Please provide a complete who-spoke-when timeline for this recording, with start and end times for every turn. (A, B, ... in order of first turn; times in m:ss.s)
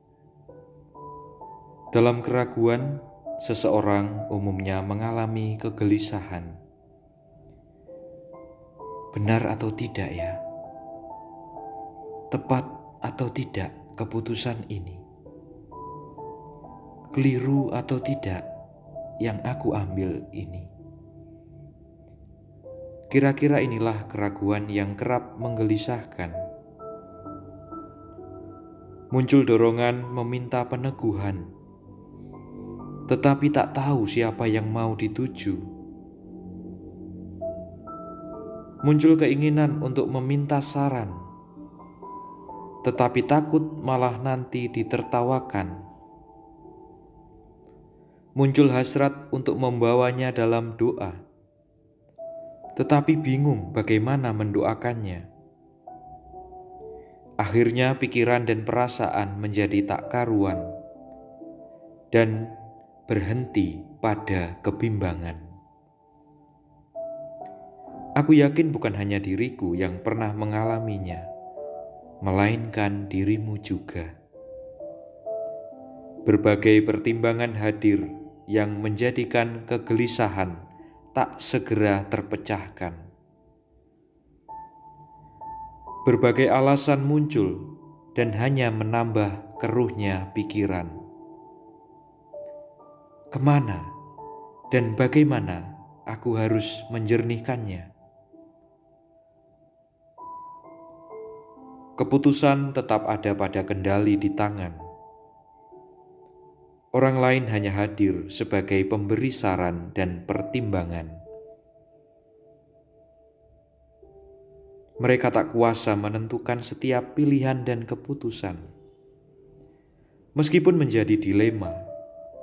0:01.9-0:06.6 A
0:09.1-0:10.4 A
0:12.3-0:15.0 A
0:17.1-0:18.5 A
0:19.2-0:20.7 A
0:23.1-0:26.4 A
0:29.1-0:31.5 A
0:33.1-0:35.7 A
0:38.8-0:41.2 A
0:42.8-0:45.8 A
0:48.4-0:51.2 A
0:52.8-0:55.3 A
0:57.4-1:00.7 A
1:02.1-1:02.6 A
1:03.1-1:05.5 A
1:08.2-1:11.3 A
1:12.2-1:14.1 A
1:16.2-1:20.6 A
1:21.1-1:23.1 A
1:26.0-1:31.0 A
1:33.3-1:33.9 A
1:34.7-1:37.9 A
1:42.0-1:44.8 A
1:46.9-1:51.2 A
1:55.0-1:58.7 A
2:00.4-2:01.8 A